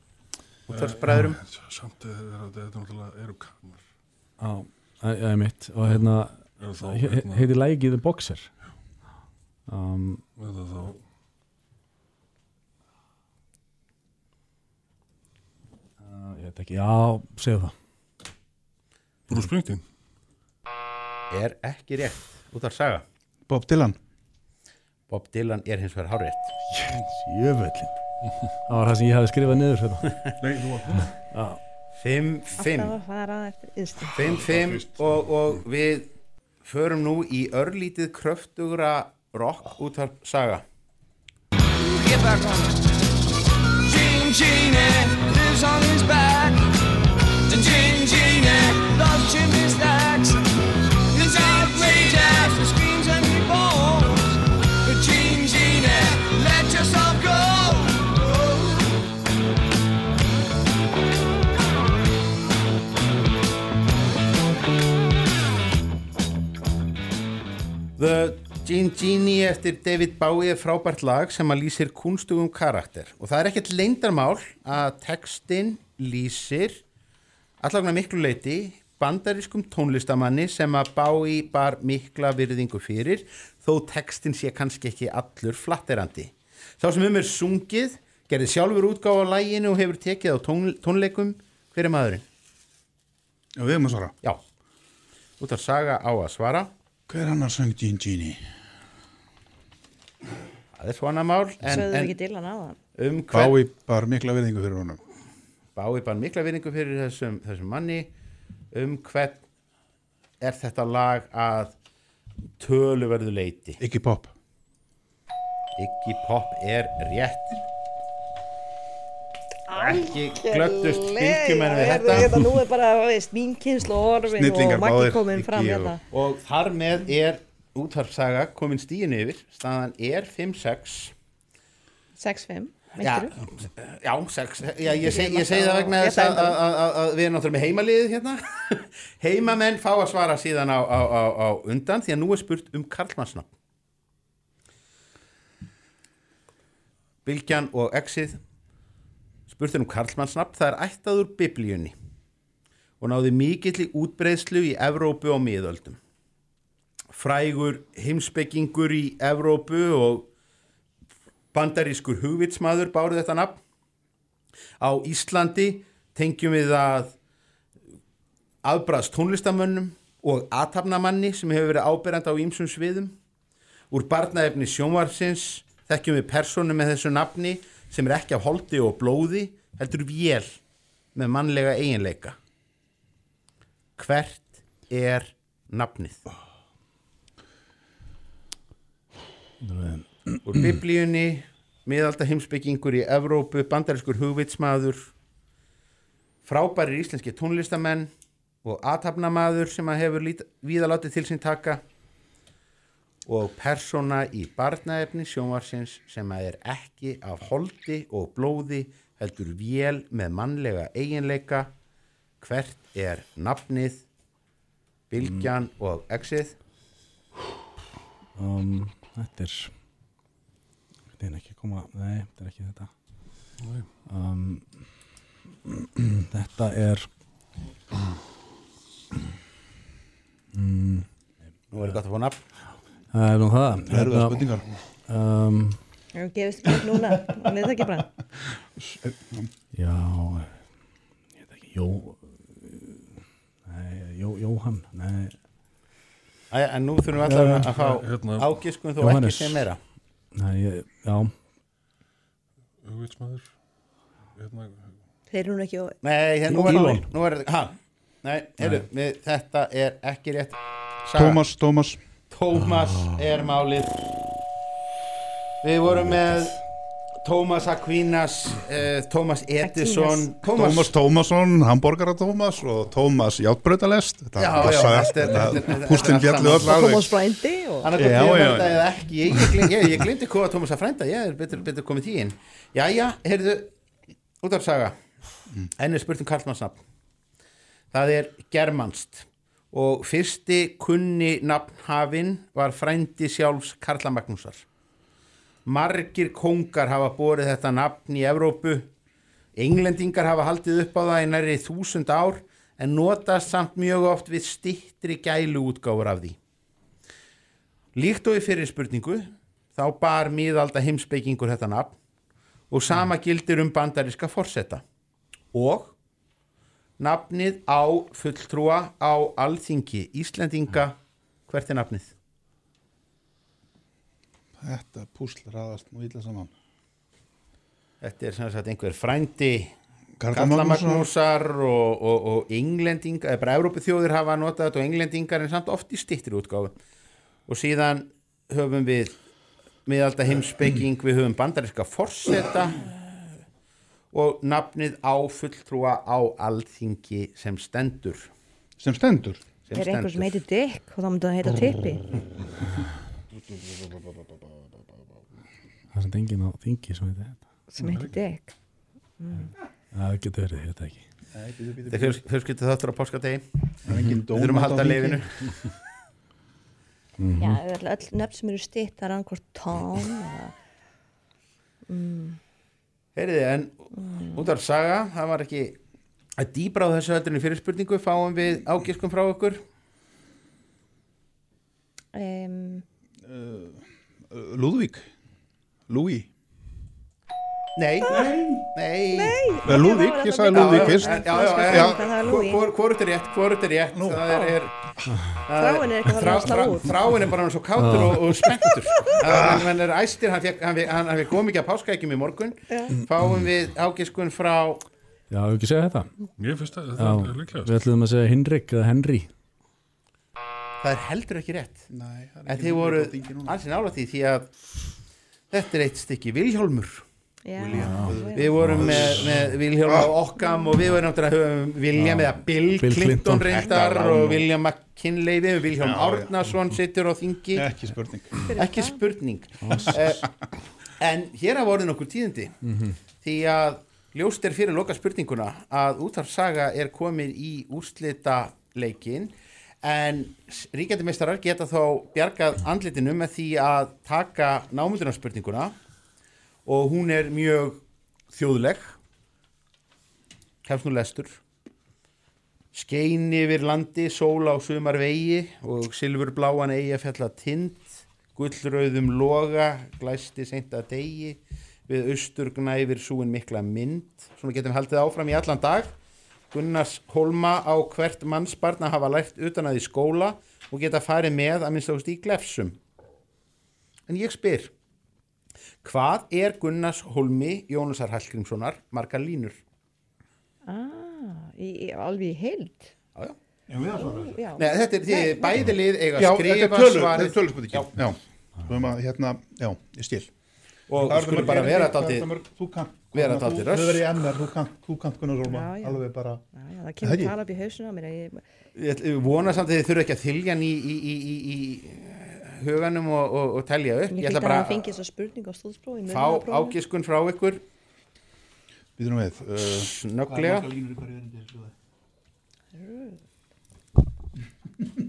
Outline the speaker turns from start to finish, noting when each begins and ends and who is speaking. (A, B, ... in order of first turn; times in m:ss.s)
0:00.7-0:03.9 A
0:00.7-0:01.4 B
0:04.4-0:08.5 C
0:05.8-0:07.5 A
0:09.7-0:10.2 C
0:10.4-0:11.0 A
0:16.0-0:17.7 C
0:19.3-0:19.8 A
0:21.3-0:23.0 B
0:23.5-0:24.0 D
0:25.1-0:26.5 B
0:26.9-0:27.9 C
0:28.7-0:30.0 C
0:30.4-0:31.1 A
0:32.0-0:33.0 B
0:32.6-0:34.2 E
0:34.1-0:36.1 B
0:34.2-0:35.6 A
0:36.6-0:40.6 B
0:41.8-0:42.8 F
0:43.8-0:46.7 F
0:47.5-0:50.5 F
0:51.1-0:58.8 F
1:08.0-1:16.8 B
1:17.6-1:32.2 B
1:33.6-1:34.2 D
1:35.4-1:36.7 B
1:37.1-1:38.4 D
1:40.8-1:42.2 B
1:41.7-1:42.8 E
1:43.0-1:43.6 B
1:43.3-1:45.0 D
1:45.8-1:48.1 B
1:48.7-1:49.4 B
1:50.4-1:51.7 B
1:52.6-1:53.8 B
1:53.8-1:54.3 D
1:55.8-1:57.6 B
1:59.7-2:06.0 E
1:59.8-2:02.4 B
2:04.3-2:06.0 D
2:06.1-2:11.1 B
2:12.2-2:13.4 E
2:13.0-2:23.5 B
2:14.9-2:16.6 E
2:27.2-2:28.4 B
2:29.5-2:32.0 B
2:33.0-2:36.0 B
2:37.1-2:40.3 B
2:41.5-2:43.6 B
2:44.8-2:47.1 B
2:48.6-2:53.2 B
2:53.9-3:00.6 B
3:01.2-3:02.4 B
3:04.0-3:06.2 B
3:09.6-3:10.1 C
3:10.4-3:15.1 B
3:16.4-3:18.1 B
3:18.6-3:21.8 B
3:23.3-3:31.7 B
3:32.4-3:34.0 B
3:35.1-3:36.6 B
3:35.2-3:35.5 C
3:38.4-3:39.7 C
3:41.2-3:42.9 C
3:43.6-3:43.9 A
3:44.1-3:45.0 C
3:45.7-3:47.1 C
3:50.5-3:51.1 C
3:51.7-3:52.4 B
3:53.1-3:55.8 C
3:53.9-3:54.8 D
3:56.1-3:58.1 E
3:58.9-3:59.5 D
3:59.7-4:00.7 C
4:01.4-4:03.2 C
4:03.7-4:05.3 C
4:06.5-4:09.8 B
4:07.3-4:07.6 C
4:07.7-4:08.7 A
4:09.0-4:09.7 C
4:10.4-4:11.3 C
4:12.8-4:13.5 A
4:14.3-4:15.0 A
4:15.3-4:16.0 E
4:16.0-4:21.4 B
4:16.6-4:17.0 C
4:21.2-4:22.0 D
4:22.3-4:24.0 B
4:25.6-4:26.6 B
4:27.2-4:30.9 B
4:29.6-4:30.3 E
4:30.4-4:37.2 D
4:34.4-4:36.8 B
4:36.5-4:37.9 E
4:37.8-4:43.7 B
4:38.0-4:39.9 D
4:44.4-4:45.0 B
4:45.8-4:46.8 B
4:47.9-4:54.6 B
4:55.7-4:58.9 B
4:59.6-5:06.4 B
5:08.0-5:12.0 B
5:12.7-5:14.8 B
5:15.5-5:16.0 B
5:17.0-5:21.0 B
5:21.5-5:22.1 B
5:24.6-5:26.5 D
5:28.0-5:29.7 B
5:30.2-5:31.1 D
5:30.3-5:36.7 B
5:37.5-5:39.2 B
5:39.9-5:43.0 B
5:44.1-5:48.3 B
5:48.8-5:49.4 D
5:49.7-5:50.4 B
5:49.7-5:52.0 E
5:53.4-5:54.4 D
5:55.9-5:57.5 C
5:57.7-5:58.5 E
5:59.2-5:59.5 E
5:59.9-6:01.1 C
6:01.3-6:02.2 D
6:01.9-6:03.5 B
6:03.9-6:05.2 D
6:03.9-6:04.2 C
6:04.3-6:05.3 B
6:07.2-6:07.6 C
6:07.4-6:10.5 E
6:11.9-6:12.4 E
6:13.2-6:13.8 B
6:13.9-6:14.5 E
6:14.4-6:15.8 B
6:16.4-6:19.6 B
6:22.1-6:22.8 E
6:23.3-6:25.1 D
6:25.9-6:26.3 D
6:27.8-6:29.4 B
6:28.0-6:28.4 E
6:28.1-6:28.6 D
6:29.1-6:32.6 E
6:29.6-6:32.1 D
6:30.5-6:34.8 B
6:33.9-6:34.2 D
6:34.3-6:34.6 E
6:35.4-6:44.8 B
6:35.5-6:36.9 E
6:37.8-6:38.3 C
6:39.2-6:39.8 D
6:42.7-6:42.9 E
6:45.3-6:46.1 C
6:46.4-6:47.8 A
6:47.0-6:49.3 C
6:50.8-6:51.9 B
6:51.9-6:53.6 D
6:52.5-6:54.5 B
6:55.5-6:57.0 B
6:57.4-6:58.6 E
6:57.6-7:00.2 D
6:57.8-6:58.2 C
6:58.3-7:07.7 B
7:02.0-7:04.4 C
7:03.6-7:04.0 D
7:05.8-7:06.6 D
7:07.5-7:08.5 D
7:08.4-7:09.0 E
7:08.6-7:10.2 B
7:09.6-7:09.9 C
7:10.0-7:10.3 D
7:11.0-7:12.6 B
7:12.6-7:13.0 C
7:13.2-7:25.8 B
7:26.7-7:29.0 B
7:30.7-7:31.4 B
7:32.7-7:45.9 B
7:46.5-7:52.8 B
7:54.1-7:54.7 B
7:55.8-7:59.6 B
8:00.6-8:02.9 E
8:03.7-8:04.4 D
8:03.9-8:05.7 E
8:04.6-8:07.9 B
8:06.1-8:10.3 D
8:10.9-8:12.3 B
8:11.0-8:16.4 D
8:13.1-8:14.1 B
8:15.5-8:18.4 E
8:17.0-8:17.4 D
8:18.8-8:24.9 B
8:24.1-8:26.8 E
8:26.1-8:27.6 B
8:29.0-8:31.7 D
8:29.7-8:30.7 B
8:32.7-8:33.2 E